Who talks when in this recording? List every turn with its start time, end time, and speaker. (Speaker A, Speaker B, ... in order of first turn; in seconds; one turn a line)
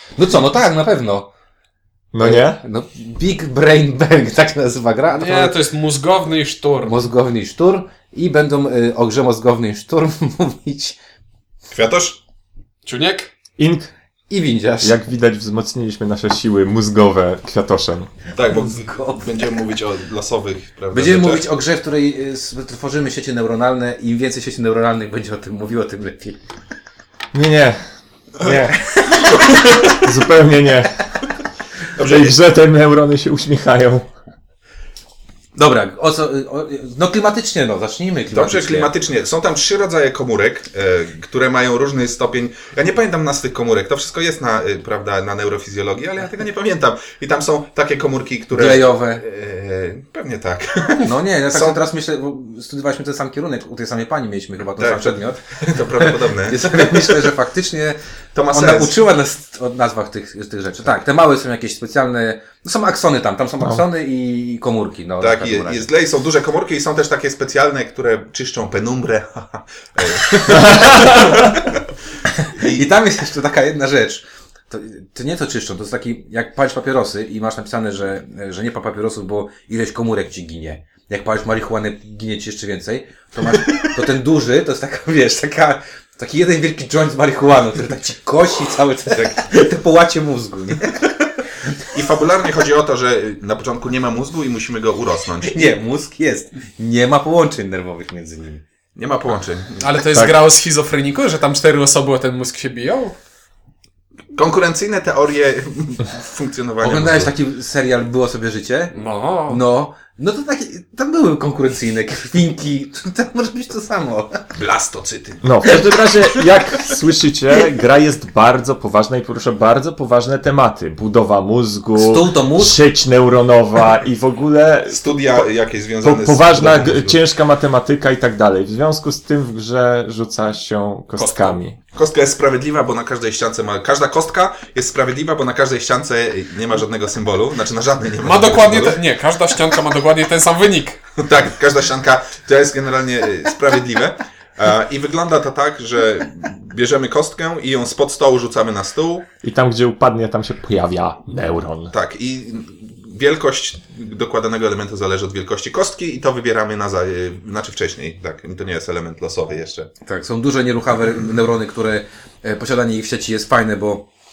Speaker A: 0.2-1.3
Speaker B: 2.1-2.6
Speaker A: 2.2-5.6
Speaker C: 5.2-7.0
Speaker A: 6.9-11.0
Speaker D: 11.7-12.2
Speaker C: 12.9-13.3
Speaker B: 13.6-13.9
Speaker A: 14.3-15.0
Speaker B: 14.8-18.1
Speaker D: 18.3-21.4
Speaker A: 18.6-19.3
Speaker A: 20.9-26.4
Speaker B: 27.3-27.8
Speaker B: 28.4-28.8
Speaker D: 28.4-29.9
Speaker B: 29.8-31.0
Speaker D: 32.0-32.4
Speaker B: 32.0-34.1
Speaker A: 35.6-38.9
Speaker D: 38.3-51.8
Speaker A: 48.5-49.2
Speaker A: 51.0-58.0
Speaker D: 54.8-57.3
Speaker D: 58.3-59.0
Speaker A: 58.5-65.9
Speaker D: 65.2-71.8
Speaker B: 70.5-71.4
Speaker A: 70.7-71.4
Speaker A: 72.4-91.2
Speaker D: 72.5-72.9
Speaker D: 89.1-89.4
Speaker D: 91.9-95.7
Speaker A: 95.4-98.6
Speaker D: 99.0-100.0
Speaker C: 99.8-103.2
Speaker D: 104.3-107.3
Speaker A: 106.8-109.0
Speaker C: 108.9-109.6
Speaker A: 109.5-114.5
Speaker D: 114.5-115.8
Speaker B: 115.4-125.5
Speaker A: 122.0-122.8
Speaker D: 124.9-127.2
Speaker B: 126.0-131.8
Speaker C: 131.2-131.6
Speaker D: 131.9-139.0
Speaker C: 138.2-141.0
Speaker D: 141.2-149.3
Speaker B: 149.4-151.9
Speaker D: 151.9-159.9
Speaker A: 160.1-164.1